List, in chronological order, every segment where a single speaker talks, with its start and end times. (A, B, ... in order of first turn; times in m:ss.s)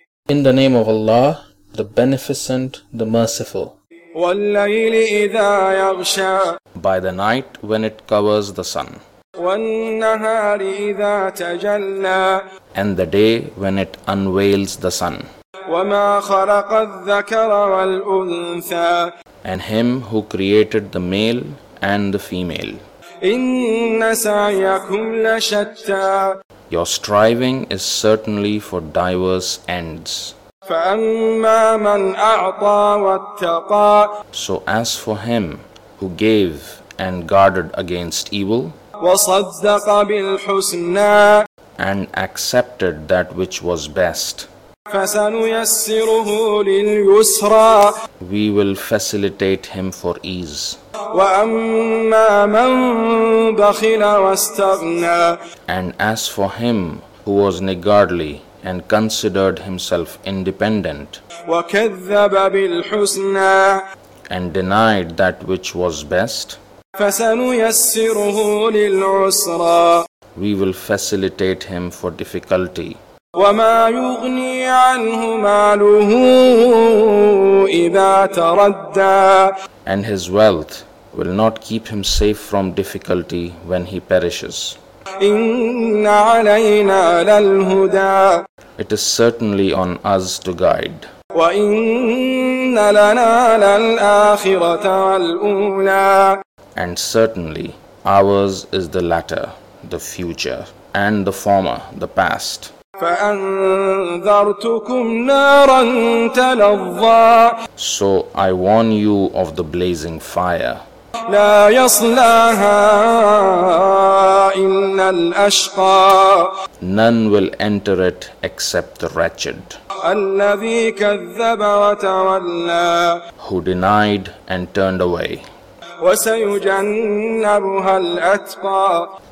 0:00.3-0:03.7 A
0:04.2-0:06.5 B
0:06.7-0:09.0 A
0:09.4-0:12.4 B
0:12.7-0:15.2 A
0:15.7-0:19.1 B
0:19.4-0:22.8 A
0:23.2-0:26.4 B
0:26.7-0:30.3 A
0:30.7-0:34.1 B
0:34.3-0:38.8 A
0:39.0-0:41.4 B
0:41.8-0:44.5 A
0:44.9-0:47.9 B
0:48.2-0:50.8 A
0:51.1-0:55.4 B
0:55.7-1:01.2 A
1:01.5-1:03.8 B
1:04.3-1:06.6 A
1:07.0-1:10.0 B
1:10.3-1:13.0 A
1:13.4-1:19.5 B
1:19.8-1:24.8 A
1:25.2-1:28.4 B
1:28.8-1:31.1 A
1:31.3-1:36.4 B
1:36.8-1:42.7 A
1:43.0-1:47.6 B
1:47.8-1:50.8 A
1:51.3-1:56.5 B
1:56.8-1:59.8 A
2:00.0-2:03.2 B
2:03.4-2:05.4 A
2:06.0-2:09.1 B